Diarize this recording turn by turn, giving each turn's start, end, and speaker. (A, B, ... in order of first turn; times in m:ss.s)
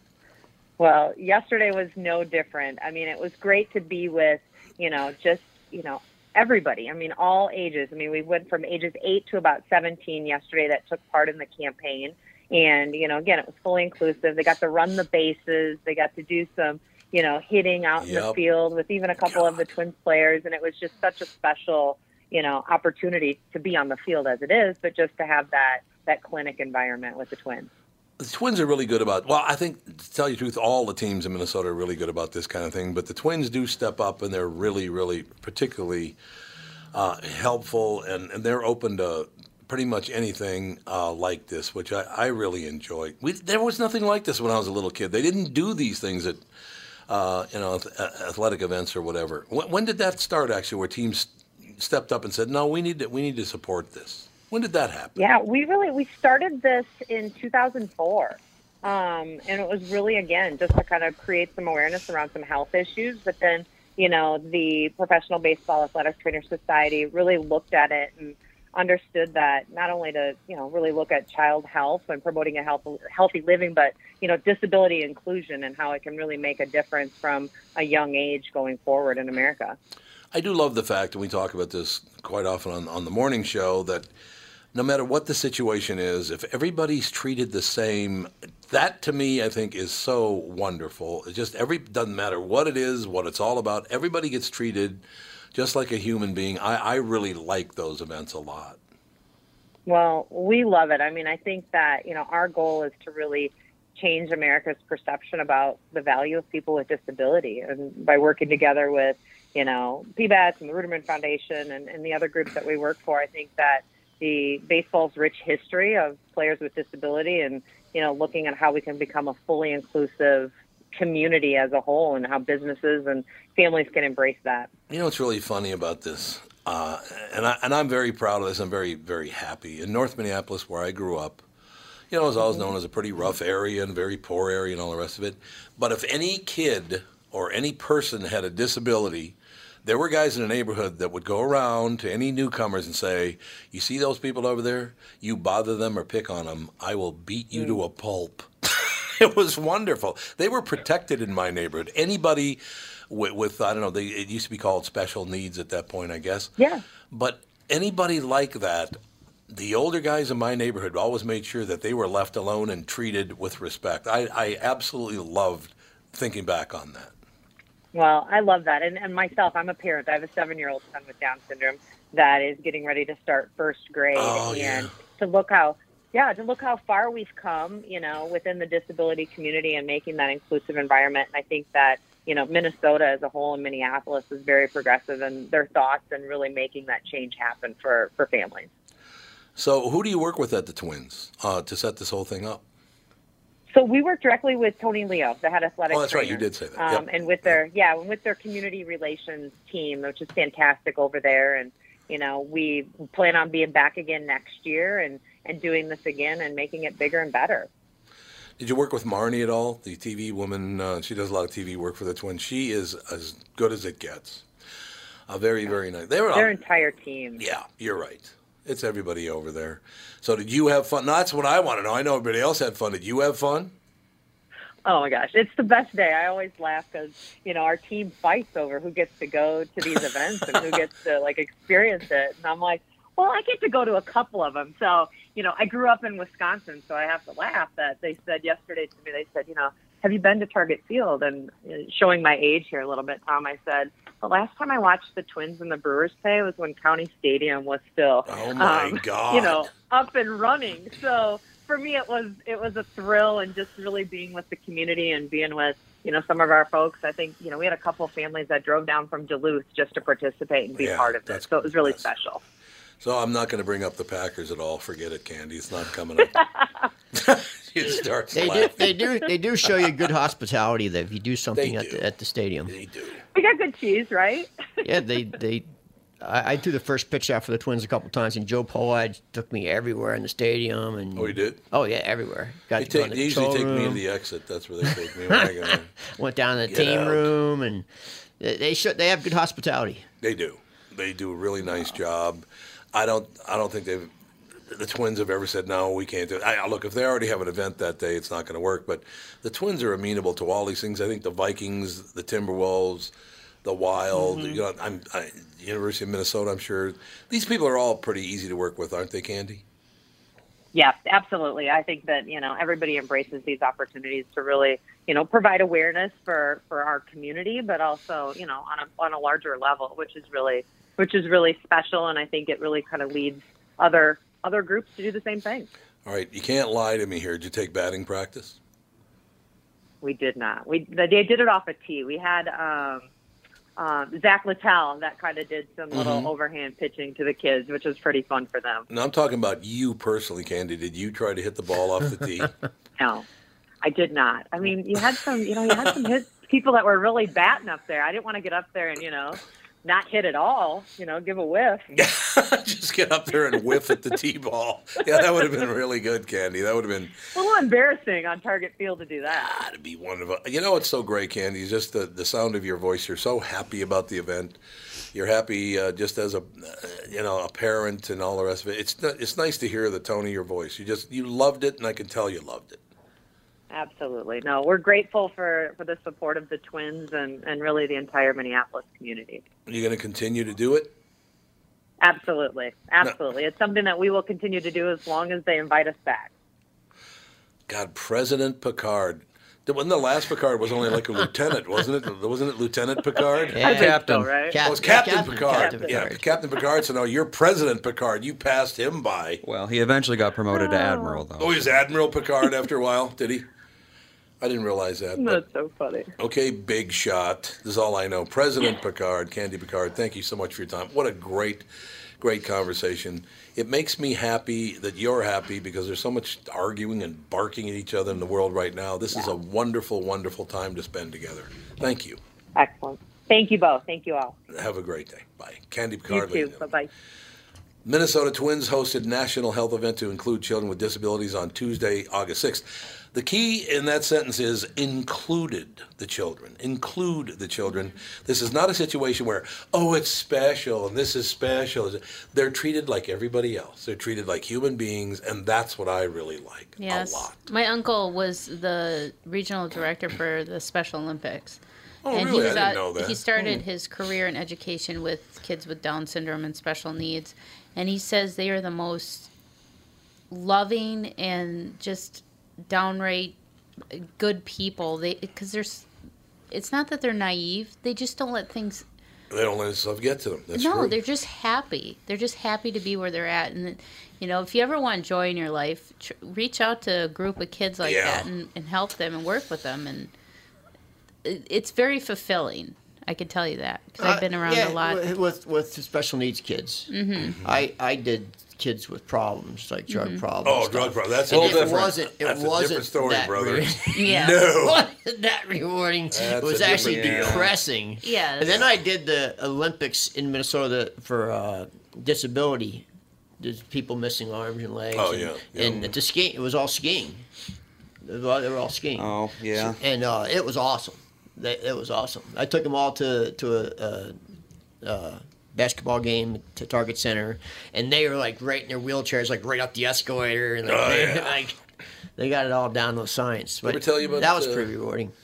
0:00.8-0:27.7 A
0:18.0-0:18.4 B
0:19.2-0:19.6 B
0:28.2-0:36.2 B
0:36.9-0:46.4 B
0:47.1-0:55.2 B
0:55.2-1:19.8 A
1:20.3-1:24.1 B
1:24.7-1:38.8 B
1:39.8-2:04.7 A
2:04.9-2:11.4 B
2:12.1-2:36.5 B
2:27.5-2:27.8 A
2:37.1-2:39.0 B
2:39.5-2:47.1 B
2:47.9-3:08.7 A
2:54.1-2:55.0 B
3:09.6-3:12.6 B
3:13.7-3:27.7 A
3:15.9-3:17.6 B
3:28.6-3:34.4 B
3:35.3-3:36.6 B
3:36.3-3:37.4 A
3:37.4-3:43.7 B
3:44.8-4:22.4 A
4:08.3-4:09.7 B
4:20.8-4:22.1 B
4:23.0-4:26.3 B
4:27.1-4:29.1 B
4:28.3-4:32.7 C
4:31.6-4:32.0 B
4:32.7-4:33.2 B
4:33.3-4:34.5 A
4:34.8-4:35.7 C
4:36.2-4:44.0 C
4:41.1-4:41.6 B
4:42.8-4:45.9 B
4:44.9-4:47.8 C
4:46.7-4:47.3 B
4:48.4-4:50.0 C
4:50.2-4:54.1 B
4:54.7-5:03.1 B
5:03.6-5:09.6 B
5:04.1-5:04.6 A
5:10.7-5:25.7 A
5:26.0-5:28.6 B
5:30.0-5:33.1 A
5:33.8-5:38.8 A
5:35.9-5:36.3 B
5:38.9-5:42.5 B
5:43.0-5:43.2 A
5:43.8-5:51.9 A
5:51.9-5:57.2 B
5:57.3-5:59.6 A
5:59.3-6:04.6 B
6:05.1-6:12.8 B
6:13.7-6:19.4 A
6:19.7-6:20.9 B
6:22.0-6:26.3 A
6:27.7-6:33.6 B
6:33.2-6:34.6 A
6:33.5-6:36.3 C
6:33.7-6:34.3 D
6:34.6-6:39.4 B
6:35.4-6:36.1 A
6:39.4-6:41.6 D
6:40.5-6:41.2 A
6:41.4-6:43.4 B
6:44.4-6:45.4 B
6:45.1-6:46.1 A
6:46.2-6:51.6 B
6:52.2-7:02.2 B
7:02.5-7:04.3 A
7:04.5-7:06.7 B
7:06.1-7:06.9 A
7:07.8-7:27.4 B
7:26.8-7:39.3 E
7:32.0-7:33.3 B
7:40.3-7:43.4 E
7:43.9-7:45.9 E
7:46.5-7:48.8 E
7:49.3-7:51.0 B
7:50.5-8:00.1 E
7:57.8-7:58.3 B
8:01.2-8:05.1 E
8:04.0-8:06.9 C
8:06.9-8:07.4 E
8:07.2-8:07.4 B
8:07.4-8:22.8 C
8:09.9-8:10.2 E
8:10.4-8:14.8 B
8:11.3-8:11.9 D
8:13.9-8:14.6 E
8:16.1-8:17.5 B
8:16.6-8:17.5 D
8:18.0-8:18.6 E
8:23.4-8:27.2 C
8:24.9-8:25.9 B
8:28.0-8:34.2 C
8:28.9-8:29.8 D
8:34.8-8:41.6 C
8:40.6-8:41.4 B
8:42.2-8:45.1 C
8:43.6-8:44.7 B